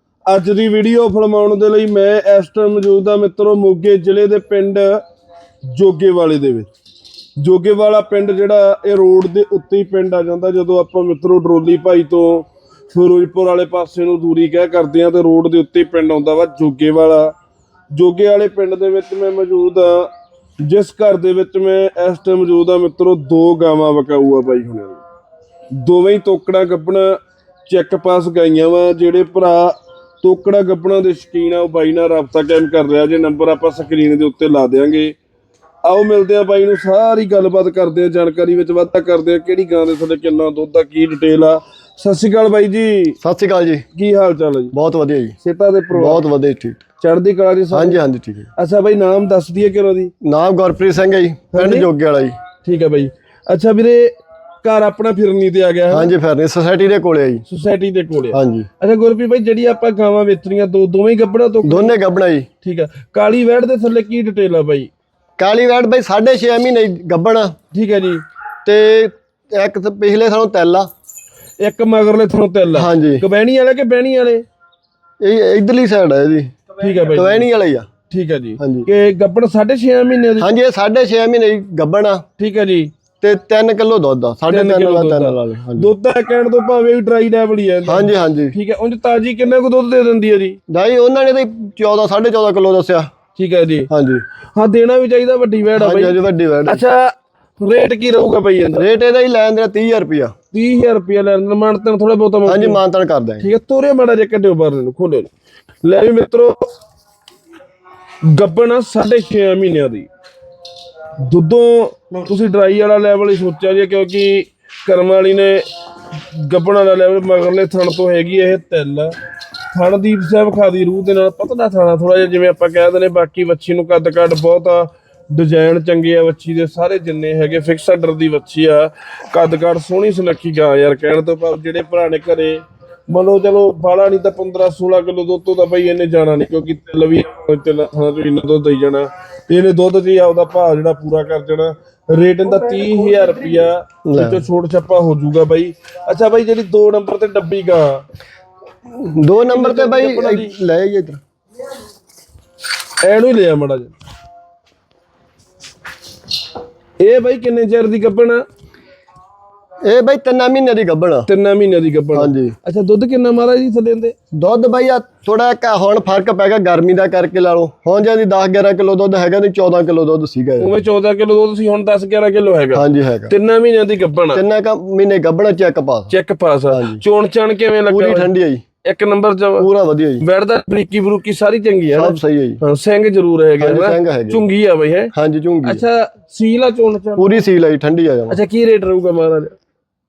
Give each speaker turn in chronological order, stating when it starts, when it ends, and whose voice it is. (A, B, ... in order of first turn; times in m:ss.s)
0:00.3-0:05.0 A
0:05.7-0:06.7 A
0:07.4-0:17.3 A
0:17.9-0:25.0 A
0:25.7-0:35.2 A
0:35.8-0:43.2 A
0:43.2-0:43.8 B
0:43.9-0:44.7 A
0:44.7-0:45.4 B
0:45.4-0:46.2 A
0:45.9-0:46.8 B
0:47.0-0:48.0 A
0:47.7-0:48.5 B
0:48.6-0:50.1 A
0:50.2-0:52.4 B
0:51.5-0:51.9 A
0:52.6-0:56.1 A
0:55.9-0:57.4 B
0:57.5-1:01.9 A
0:58.3-0:58.7 B
1:01.6-1:02.5 B
1:02.6-1:04.9 A
1:05.4-1:07.5 B
1:07.7-1:08.2 A
1:08.6-1:10.9 B
1:11.6-1:14.4 A
1:12.7-1:13.2 B
1:15.2-1:16.5 B
1:16.8-1:17.5 A
1:17.1-1:17.9 B
1:18.1-1:20.5 A
1:18.6-1:18.9 B
1:20.4-1:22.2 B
1:22.4-1:22.9 A
1:23.2-1:25.9 B
1:24.5-1:30.6 A
1:27.8-1:28.5 B
1:30.7-1:33.1 B
1:33.4-1:33.9 A
1:33.9-1:34.2 B
1:34.5-1:38.9 A
1:35.8-1:36.8 B
1:38.8-1:40.3 B
1:40.5-1:42.8 A
1:42.4-1:43.5 B
1:43.4-1:45.3 A
1:45.8-1:46.6 A
1:48.2-1:50.1 A
1:51.2-1:59.1 A
1:59.7-2:28.0 A
2:24.0-2:24.4 B
2:28.9-2:31.2 B
2:29.4-2:30.5 A
2:33.0-2:33.9 A
2:37.0-2:38.4 A
2:39.8-2:41.3 B
2:41.3-2:44.1 A
2:42.1-2:42.6 B
2:44.3-2:50.8 B
2:50.6-2:54.4 A
2:52.7-2:53.3 B
2:54.3-2:56.1 B
2:56.1-2:58.3 A
2:56.7-2:57.0 B
2:57.9-2:58.6 B
2:58.8-2:59.7 A
2:59.6-3:00.2 B
3:00.2-3:05.1 A
3:01.9-3:02.6 B
3:03.6-3:04.4 B
3:05.1-3:05.8 B
3:05.6-3:07.4 A
3:07.2-3:08.4 B
3:08.3-3:09.6 A